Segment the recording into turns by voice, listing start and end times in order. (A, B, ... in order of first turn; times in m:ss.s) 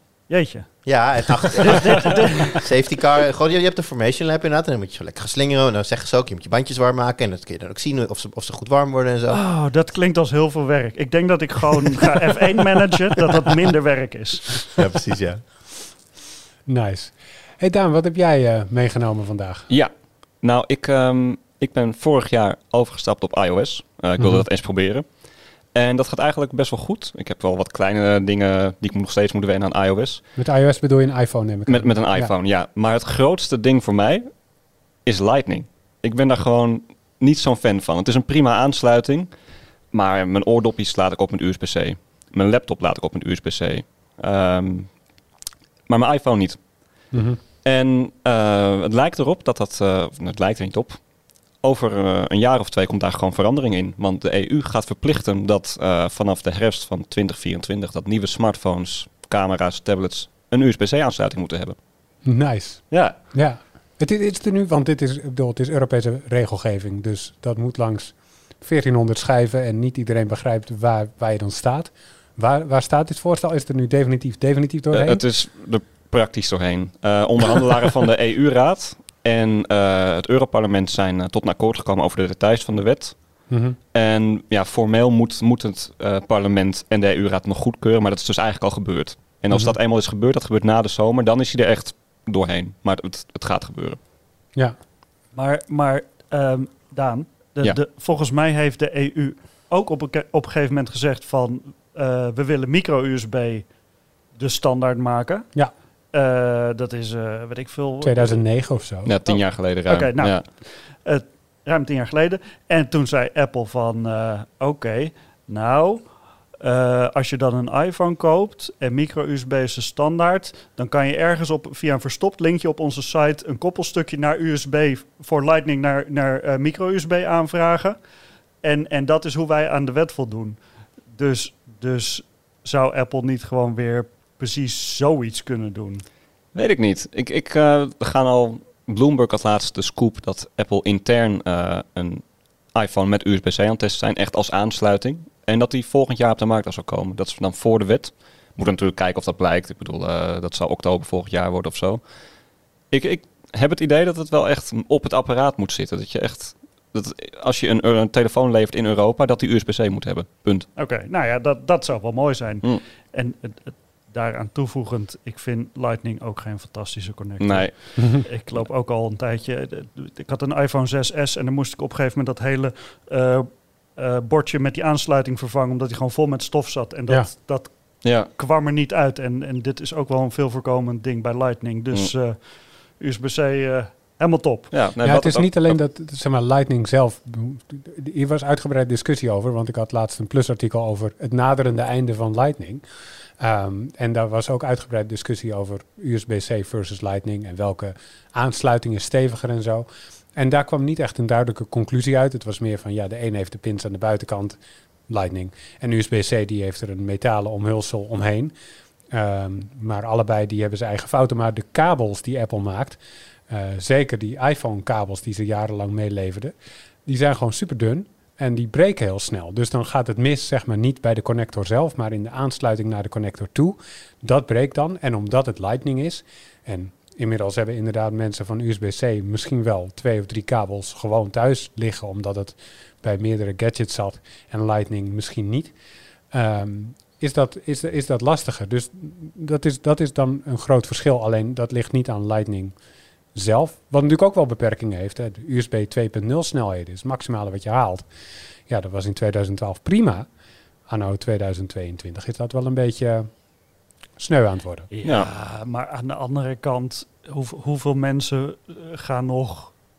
0:00.3-0:02.6 A
0:00.8-0:09.4 B
0:09.3-0:14.7 A
0:14.8-0:15.4 B
0:16.6-0:19.7 C
0:19.7-0:25.1 D
0:24.2-0:24.4 C
0:25.7-0:30.2 D
0:30.4-0:32.3 C
0:31.7-0:34.4 D
0:35.0-0:39.3 D
0:39.9-0:44.9 D
0:45.9-0:46.6 D
0:47.1-0:47.4 C
0:47.6-0:51.0 D
0:51.6-1:01.8 D
1:02.2-1:15.2 C
1:02.9-1:03.2 D
1:14.9-1:34.0 D
1:23.5-1:23.8 C
1:35.3-1:43.7 A
1:44.3-1:45.5 A
1:46.1-1:48.4 A
1:48.0-1:49.1 C
1:49.0-1:50.4 D
1:49.3-1:56.1 A
1:56.6-2:08.0 A
2:08.6-2:10.6 A
2:11.1-2:16.0 A
2:16.5-2:32.0 D
2:32.9-2:40.7 D
2:40.8-3:04.7 A
2:47.4-2:48.6 D
2:58.0-2:58.3 D
3:04.7-3:05.8 D
3:05.0-3:12.8 C
3:13.4-3:24.6 C
3:25.1-3:28.5 C
3:29.1-3:36.5 C
3:37.0-3:55.7 C
3:56.3-4:02.7 C
4:03.3-4:08.0 C
4:08.7-4:10.3 C
4:10.9-4:13.3 C
4:14.2-4:14.9 C
4:14.9-4:19.7 A